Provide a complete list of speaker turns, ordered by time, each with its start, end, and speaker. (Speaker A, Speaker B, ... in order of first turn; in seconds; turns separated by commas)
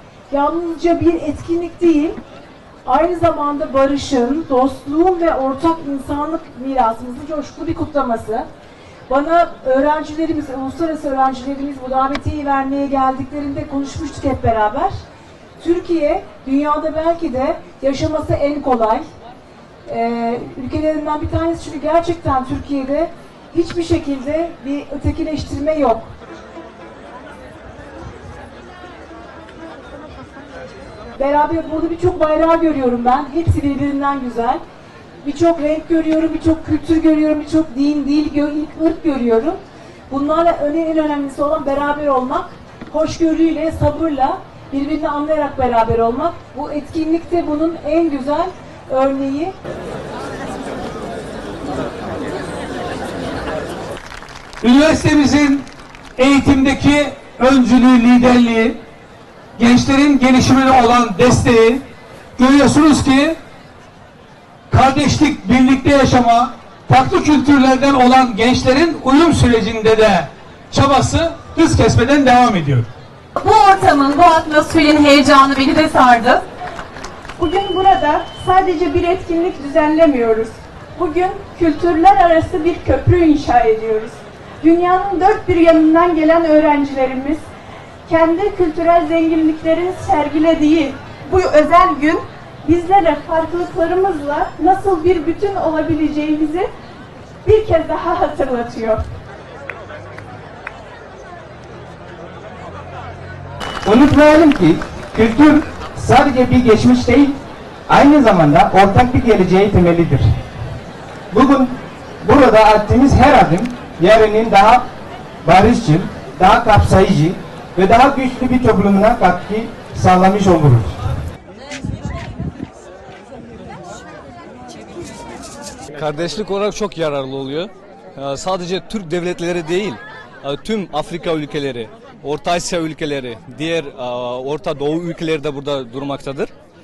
Speaker A: 0.3-2.2, Speaker A: 2.8-8.5, Speaker A: 9.1-15.0, Speaker A: 15.6-19.1, Speaker A: 19.9-26.1, Speaker A: 31.1-34.6, Speaker A: 35.2-49.5, Speaker B: 54.6-58.8, Speaker B: 59.5-61.8, Speaker B: 62.4-63.4, Speaker B: 64.7-72.9, Speaker C: 73.4-76.4, Speaker D: 77.4-87.4, Speaker D: 88.1-96.7, Speaker D: 97.4-99.0, Speaker E: 103.8-107.3, Speaker E: 107.9-110.4, Speaker E: 111.3-114.8, Speaker E: 115.4-121.0, Speaker F: 125.9-136.5